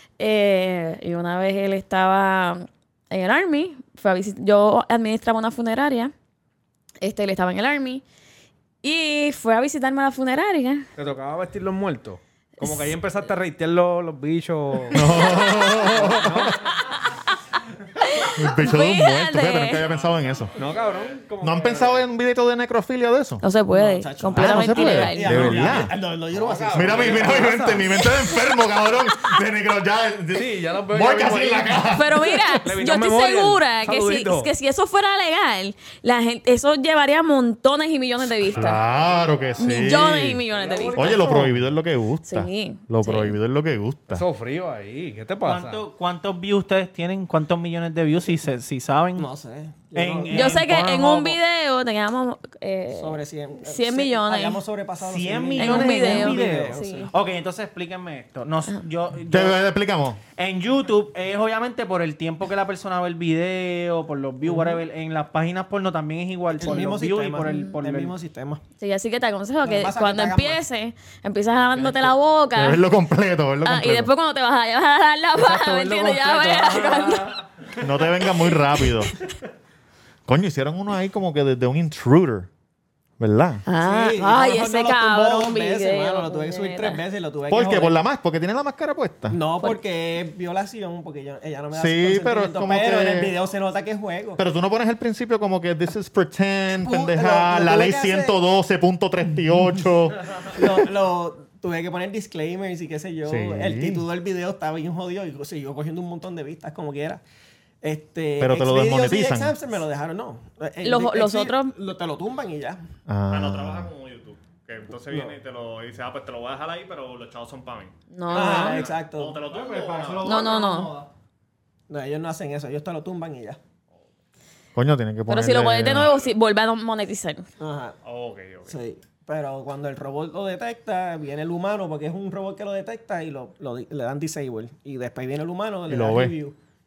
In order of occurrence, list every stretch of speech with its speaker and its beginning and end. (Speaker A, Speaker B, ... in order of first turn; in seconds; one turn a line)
Speaker A: 0.2-6.1
Speaker A: 7.0-8.0
Speaker A: 8.8-10.9
Speaker B: 10.9-15.2
Speaker C: 14.9-16.6
Speaker A: 15.0-15.9
Speaker B: 15.8-16.7
Speaker A: 18.0-19.8
Speaker C: 18.3-20.5
Speaker D: 19.9-21.2
Speaker B: 20.5-22.1
Speaker C: 21.4-23.4
Speaker A: 23.4-25.7
Speaker E: 23.7-27.6
Speaker C: 24.3-25.9
Speaker B: 26.3-27.8
Speaker C: 26.7-32.4
Speaker A: 28.0-28.5
Speaker B: 30.3-31.9
Speaker A: 31.9-38.8
Speaker B: 32.6-34.5
Speaker C: 38.5-44.2
Speaker D: 38.5-39.5
Speaker A: 39.6-41.5
Speaker B: 40.5-41.5
Speaker A: 42.2-43.4
Speaker B: 44.1-45.8
Speaker F: 45.4-49.3
Speaker E: 49.1-50.6
Speaker F: 49.9-51.4
Speaker A: 50.3-54.6
Speaker E: 52.9-57.1
Speaker F: 55.0-59.6
Speaker A: 55.6-57.1
Speaker C: 59.3-60.2
Speaker F: 60.4-68.1
Speaker E: 64.5-64.8
Speaker E: 66.5-68.6
Speaker A: 68.8-72.8
Speaker E: 69.6-70.6
Speaker C: 72.5-74.1
Speaker A: 73.6-77.4
Speaker F: 75.4-77.0
Speaker B: 76.3-76.8
Speaker C: 77.8-79.1
Speaker C: 80.3-82.5
Speaker C: 83.2-83.6
Speaker A: 83.7-87.0
Speaker E: 83.8-88.0
Speaker C: 87.5-89.4
Speaker E: 89.3-94.4
Speaker C: 91.7-93.3
Speaker C: 94.4-100.7
Speaker E: 96.8-98.4
Speaker E: 100.5-107.2
Speaker C: 103.2-104.0
Speaker E: 107.8-112.8
Speaker C: 108.4-109.5
Speaker A: 110.8-111.7
Speaker C: 113.1-113.9
Speaker D: 113.3-120.6
Speaker E: 115.1-115.3
Speaker A: 118.1-118.9
Speaker E: 118.3-119.5
Speaker F: 119.5-121.1
Speaker A: 120.2-120.9
Speaker E: 121.9-123.6
Speaker C: 124.7-126.1
Speaker A: 125.3-127.5
Speaker D: 126.1-126.3
Speaker E: 127.6-128.0
Speaker D: 128.0-128.8
Speaker E: 128.7-136.6
Speaker C: 135.9-136.4